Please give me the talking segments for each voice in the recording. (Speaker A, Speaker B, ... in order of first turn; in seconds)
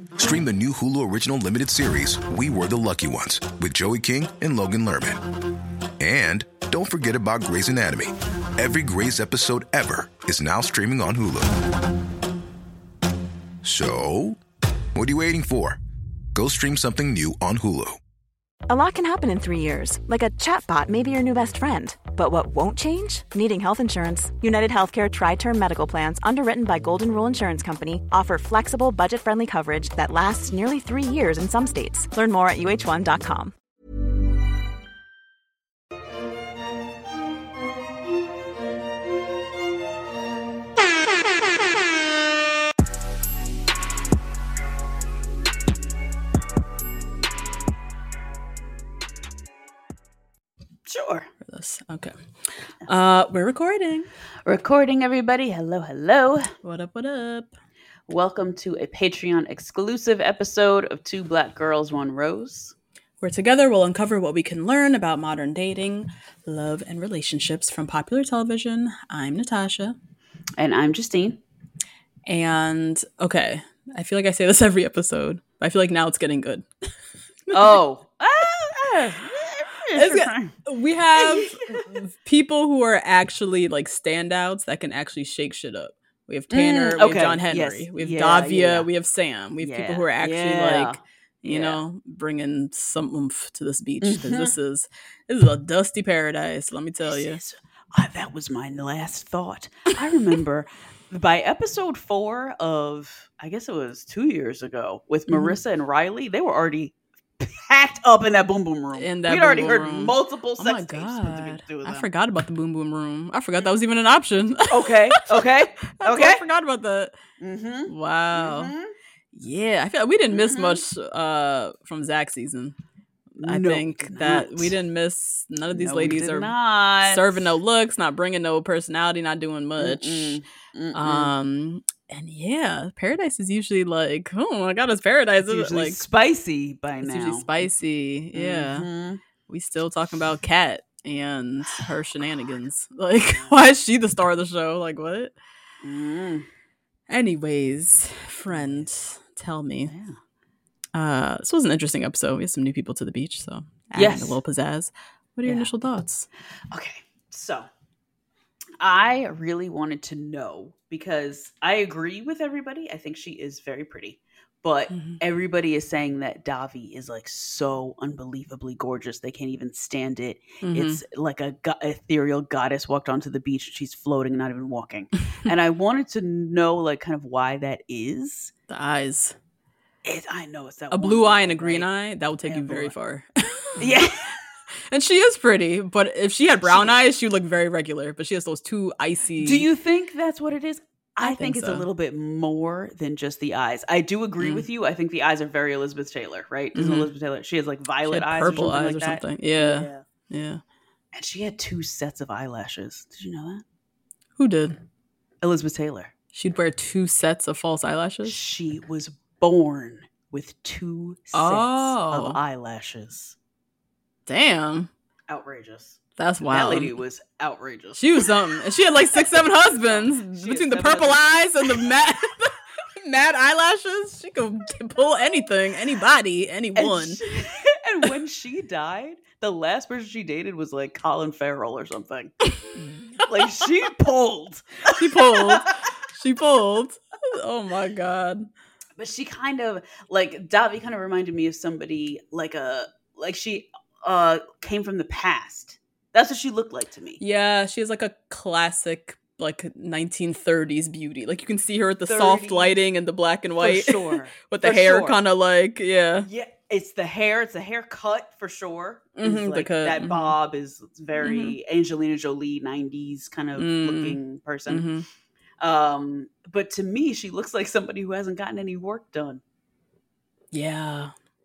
Speaker A: 0.2-5.2, 6.0-11.5, 13.6-14.4, 14.9-15.8, 16.3-18.0
Speaker B: 18.7-33.5
Speaker C: 50.9-51.3, 54.5-56.5, 58.1-62.7, 70.6-71.4, 77.5-80.5, 81.2-82.0, 86.5-88.9, 89.6-91.8, 94.0-94.5, 97.0-112.1, 114.7-116.4, 117.4-118.9, 120.3-120.8, 123.4-124.8, 125.7-127.5, 129.8-131.3, 135.5-137.7, 138.3-139.2, 145.8-146.5, 148.5-148.9, 149.9-150.2, 154.0-154.4, 156.7-157.7, 158.8-178.5, 180.1-181.9, 182.4-182.9, 183.8-184.4, 186.6-187.0, 189.4-200.0, 201.1-203.6, 205.4-206.1, 208.2-213.4, 215.3-221.9, 226.8-232.3, 233.2-235.7, 239.0-247.2, 252.1-252.8, 253.6-255.2, 256.2-264.9, 265.6-269.4
Speaker D: 51.5-54.1, 56.6-57.5, 63.2-70.0, 72.3-76.7, 77.5-77.8, 80.0-97.4, 105.3-105.6, 109.0-117.2, 117.9-118.7, 119.3-122.8, 123.4-130.4, 130.9-136.0, 137.0-138.9, 139.5-145.3, 147.1-149.9, 150.9-156.3, 164.9-165.2, 170.6-171.0, 178.7-179.4, 180.9-184.1, 184.9-189.7, 191.2-191.9, 194.4-194.7, 196.8-197.1, 198.1-200.6, 204.4-204.8, 206.3-208.4, 211.3-212.4, 214.3-214.9, 216.2-217.0, 218.0-227.2, 232.8-233.3, 234.9-238.5, 247.2-256.3, 259.2-260.4, 261.2-261.6, 263.6-265.1, 270.5-271.1